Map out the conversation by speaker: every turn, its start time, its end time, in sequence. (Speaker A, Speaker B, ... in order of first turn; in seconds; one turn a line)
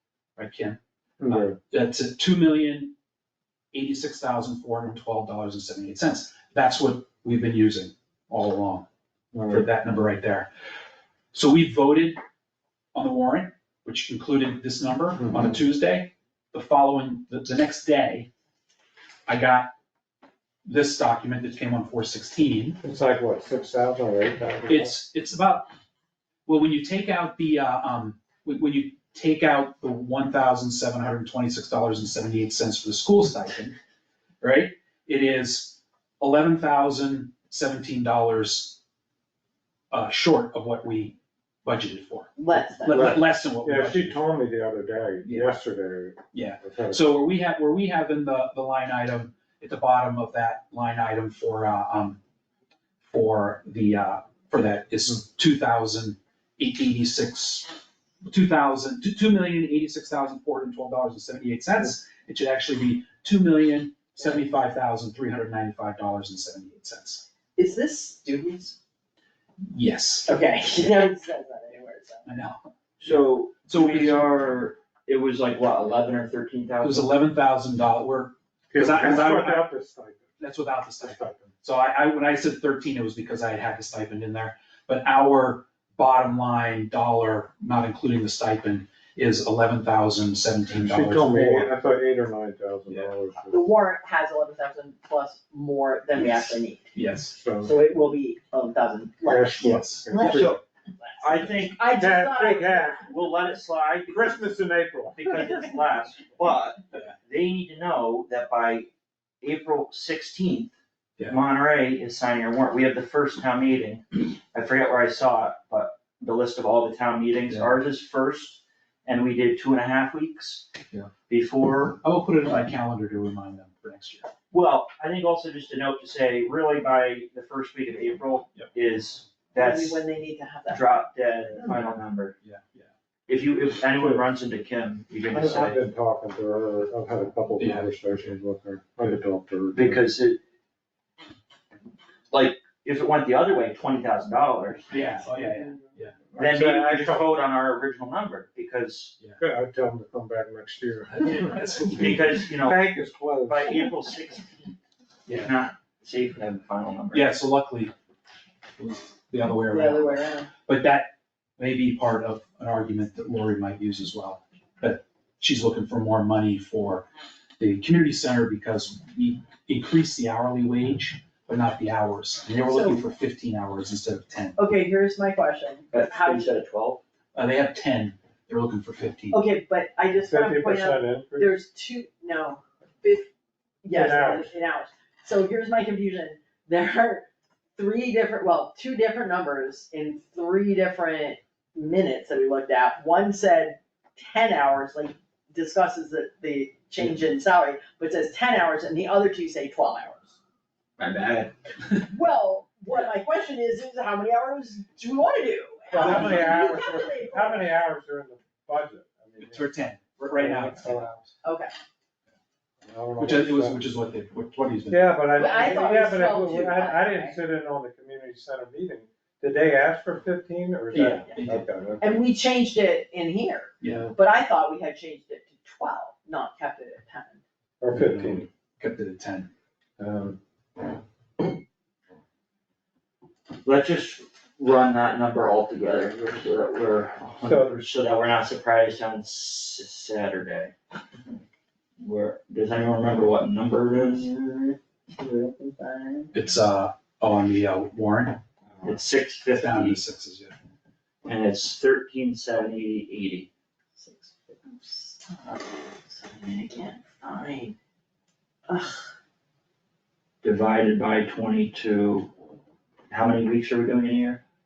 Speaker A: 0.4-2.9
Speaker B: 1.2-1.6
Speaker A: 3.7-8.9
Speaker B: 9.3-9.7
Speaker A: 9.5-10.5
Speaker A: 11.3-12.2
Speaker A: 12.9-18.3
Speaker B: 15.2-15.5
Speaker A: 19.3-19.7
Speaker A: 20.6-22.8
Speaker B: 22.8-24.9
Speaker A: 24.7-25.7
Speaker A: 26.5-33.8
Speaker A: 34.4-38.8
Speaker A: 39.9-44.2
Speaker C: 42.4-43.1
Speaker B: 42.9-47.0
Speaker A: 45.2-45.6
Speaker A: 46.3-52.2
Speaker A: 53.1-57.7
Speaker A: 58.2-67.3
Speaker C: 67.6-68.8
Speaker A: 69.7-70.3
Speaker C: 70.3-72.3
Speaker A: 72.3-74.3
Speaker D: 73.0-77.2
Speaker A: 76.8-79.7
Speaker B: 78.7-80.3
Speaker A: 80.4-91.7
Speaker B: 81.0-81.5
Speaker B: 90.7-93.7
Speaker C: 93.5-96.9
Speaker A: 96.2-97.4
Speaker B: 97.3-97.8
Speaker C: 97.6-103.1
Speaker B: 99.2-100.5
Speaker A: 99.6-100.5
Speaker D: 100.2-100.6
Speaker D: 101.2-101.9
Speaker B: 101.9-103.1
Speaker D: 103.0-104.4
Speaker B: 104.1-105.3
Speaker D: 105.2-108.9
Speaker D: 109.4-110.7
Speaker D: 111.2-120.7
Speaker A: 117.5-117.8
Speaker D: 121.3-122.0
Speaker A: 122.0-124.3
Speaker D: 124.5-130.1
Speaker C: 129.6-131.0
Speaker D: 130.7-132.4
Speaker A: 132.4-132.9
Speaker D: 133.3-135.8
Speaker B: 134.0-134.3
Speaker B: 135.3-140.0
Speaker A: 137.6-137.9
Speaker D: 139.7-140.4
Speaker D: 142.3-145.0
Speaker A: 144.9-146.2
Speaker B: 146.3-147.3
Speaker D: 146.3-149.2
Speaker B: 149.4-153.9
Speaker A: 151.2-152.3
Speaker D: 151.9-152.8
Speaker D: 153.5-154.6
Speaker A: 155.3-155.5
Speaker D: 155.3-157.3
Speaker A: 157.1-157.9
Speaker A: 158.8-167.1
Speaker C: 159.7-160.5
Speaker A: 167.6-174.6
Speaker C: 172.7-173.0
Speaker C: 174.6-176.5
Speaker D: 175.9-177.0
Speaker A: 177.3-179.4
Speaker C: 179.3-183.3
Speaker B: 180.2-181.6
Speaker C: 183.8-200.4
Speaker B: 183.9-184.5
Speaker D: 201.0-201.5
Speaker C: 201.9-207.7
Speaker B: 205.9-211.1
Speaker A: 206.0-206.7
Speaker A: 209.4-211.3
Speaker C: 211.4-211.7
Speaker B: 212.8-213.8
Speaker A: 213.2-215.2
Speaker B: 214.9-222.1
Speaker C: 215.3-217.3
Speaker A: 220.9-221.7
Speaker C: 222.0-227.4
Speaker A: 223.8-224.1
Speaker B: 223.8-224.1
Speaker B: 227.8-228.5
Speaker A: 228.0-229.5
Speaker B: 230.0-230.4
Speaker D: 233.6-240.7
Speaker B: 237.4-237.8
Speaker D: 242.0-244.3
Speaker C: 243.9-246.3
Speaker A: 246.3-248.4
Speaker D: 248.8-250.0
Speaker A: 249.5-250.6
Speaker D: 251.2-253.5
Speaker C: 254.0-257.7
Speaker C: 258.7-259.1
Speaker D: 260.4-262.3
Speaker D: 263.1-264.4